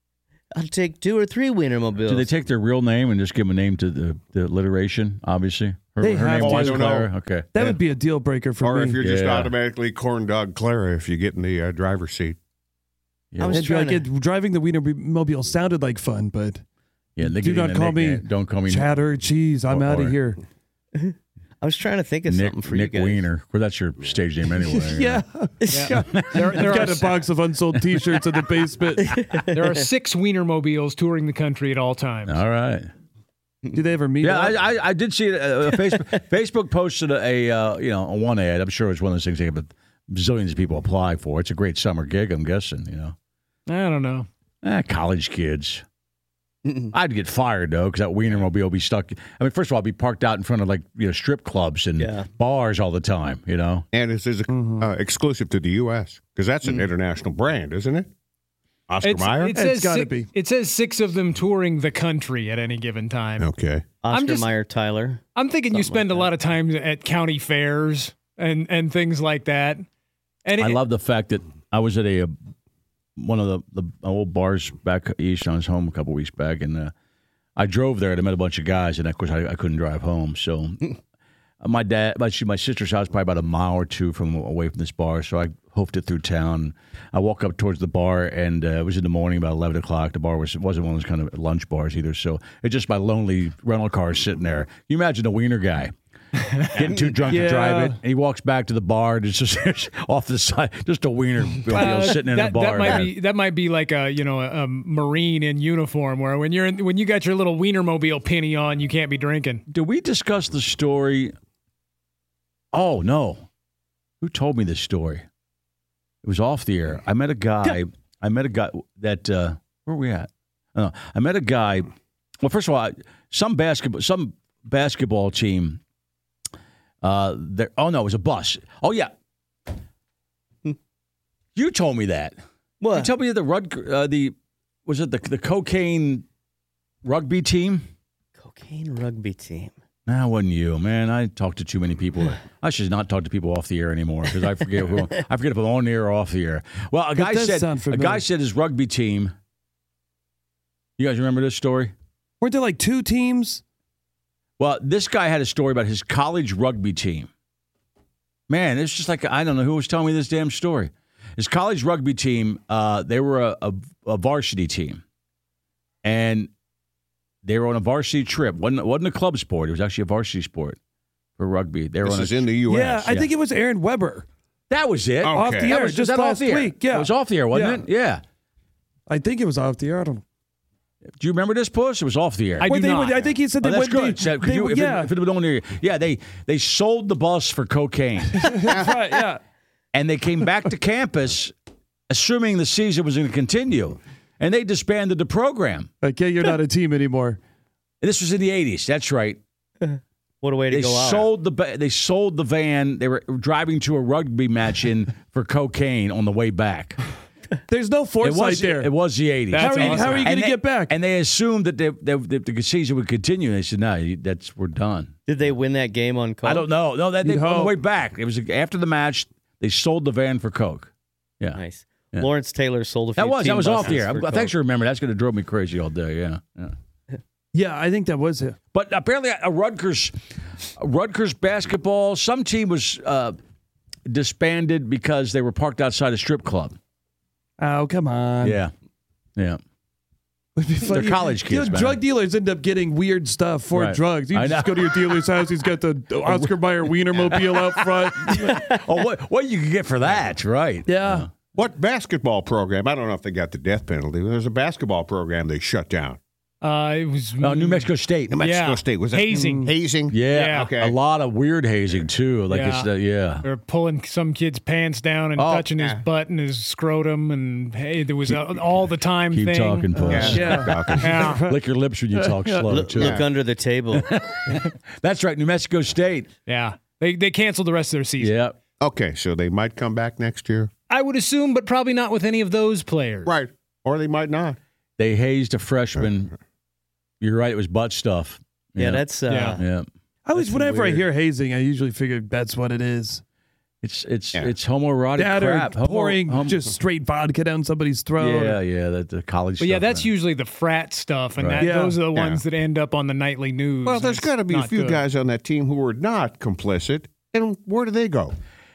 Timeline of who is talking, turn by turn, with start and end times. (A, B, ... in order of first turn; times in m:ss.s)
0:00.5-0:02.3 A
0:02.1-0:07.8 B
0:06.0-0:09.0 C
0:06.4-0:07.1 D
0:08.6-0:12.4 D
0:09.0-0:09.5 B
0:13.3-0:13.6 B
0:13.4-0:14.0 A
0:13.5-0:16.6 C
0:17.2-0:18.9 B
0:17.2-0:20.4 C
0:19.7-0:20.2 B
0:20.9-0:23.3 A
0:22.3-0:25.2 B
0:24.5-0:29.1 C
0:25.6-0:26.6 A
0:25.7-0:27.2 E
0:26.0-0:26.3 B
0:29.0-0:29.7 A
0:29.5-0:32.4 E
0:32.2-0:32.9 B
0:33.7-0:34.6 C
0:34.2-0:43.1 B
0:43.7-0:44.3 E
0:44.6-0:45.8 B
0:46.6-0:46.9 A
0:46.9-0:53.8 B
0:52.0-0:52.3 A
0:53.9-0:58.1 D
0:54.5-0:54.9 C
0:58.9-0:59.6 D
0:59.0-1:03.5 E
0:59.5-1:00.3 C
1:03.4-1:03.8 D
1:04.0-1:06.3 A
1:04.1-1:04.5 E
1:05.3-1:09.8 E
1:10.4-1:10.8 E
1:10.6-1:12.3 B
1:13.2-1:16.9 B
1:17.6-1:21.0 B
1:21.6-1:35.9 B
1:36.5-1:36.9 E
1:36.7-1:43.1 B
1:37.2-1:38.0 C
1:41.7-1:49.6 E
1:41.8-1:42.2 A
1:49.7-1:51.3 B
1:52.7-1:53.4 B
1:54.2-1:55.2 B
1:56.2-2:01.9 B
2:02.4-2:05.8 B
2:07.0-2:09.1 B
2:11.5-2:12.4 B
2:12.8-2:13.1 A
2:12.9-2:14.3 B
2:14.8-2:16.2 B
2:17.0-2:17.8 B
2:18.4-2:19.7 A
2:20.1-2:29.3 B
2:24.8-2:25.0 A
2:27.1-2:28.2 C
2:31.0-2:31.9 B
2:32.4-2:33.6 C
2:34.6-2:37.3 B
2:38.5-2:45.0 B
2:46.0-2:46.5 B
2:47.4-2:50.8 B
2:51.4-2:52.5 B
2:52.0-2:53.1 D
2:52.6-2:54.2 C
2:54.7-2:58.2 B
2:55.2-2:55.7 D
2:55.3-2:57.8 C
2:59.1-3:00.2 C
3:01.2-3:02.7 B
3:02.6-3:03.2 E
3:02.6-3:05.1 C
3:03.6-3:08.7 B
3:08.4-3:09.4 C
3:09.9-3:11.5 B
3:12.1-3:15.9 B
3:16.0-3:17.4 C
3:18.0-3:19.4 B
3:19.8-3:21.3 A
3:20.7-3:27.0 B
3:27.7-3:28.9 C
3:28.2-3:35.5 B
3:29.5-3:31.0 C
3:29.5-3:30.3 E
3:35.3-3:36.7 A
3:36.4-3:41.6 B
3:37.2-3:37.8 C
3:41.5-3:44.6 A
3:43.1-3:46.7 B
3:47.5-3:48.6 C
3:48.7-3:50.1 B
3:50.8-3:53.3 B
3:54.0-3:56.8 B
3:57.6-3:58.6 C
3:58.4-3:58.7 B
4:00.6-4:08.6 C
4:00.8-4:02.0 B
4:03.7-4:05.4 B
4:06.2-4:06.6 B
4:07.3-4:07.7 B
4:08.2-4:11.3 B
4:08.4-4:08.8 A
4:10.8-4:11.3 C
4:11.5-4:16.2 D
4:16.6-4:17.9 E
4:17.4-4:18.4 B
4:18.3-4:21.0 D
4:18.4-4:20.7 E
4:19.3-4:19.7 C
4:20.1-4:23.4 B
4:22.5-4:22.9 E
4:23.4-4:31.5 E
4:25.4-4:25.7 B
4:25.8-4:26.0 D
4:29.3-4:33.2 B
4:30.0-4:31.6 C
4:30.1-4:31.4 D
4:32.1-4:32.6 C
4:32.7-4:34.2 A
4:33.0-4:33.3 D
4:34.0-4:36.3 B
4:36.4-4:38.4 E
4:38.2-4:38.5 B
4:38.8-4:40.7 D
4:40.9-4:43.4 E
4:43.2-4:44.6 D
4:45.0-4:46.3 B
4:47.2-4:51.0 B
4:48.8-4:49.6 A
4:49.3-4:49.6 E
4:50.2-4:53.2 C
4:53.8-4:56.6 B
4:55.2-4:58.6 C
4:58.2-5:00.1 B
4:59.6-5:05.0 E
5:01.4-5:01.6 B
5:01.6-5:02.0 C
5:02.1-5:02.4 D
5:03.8-5:08.4 D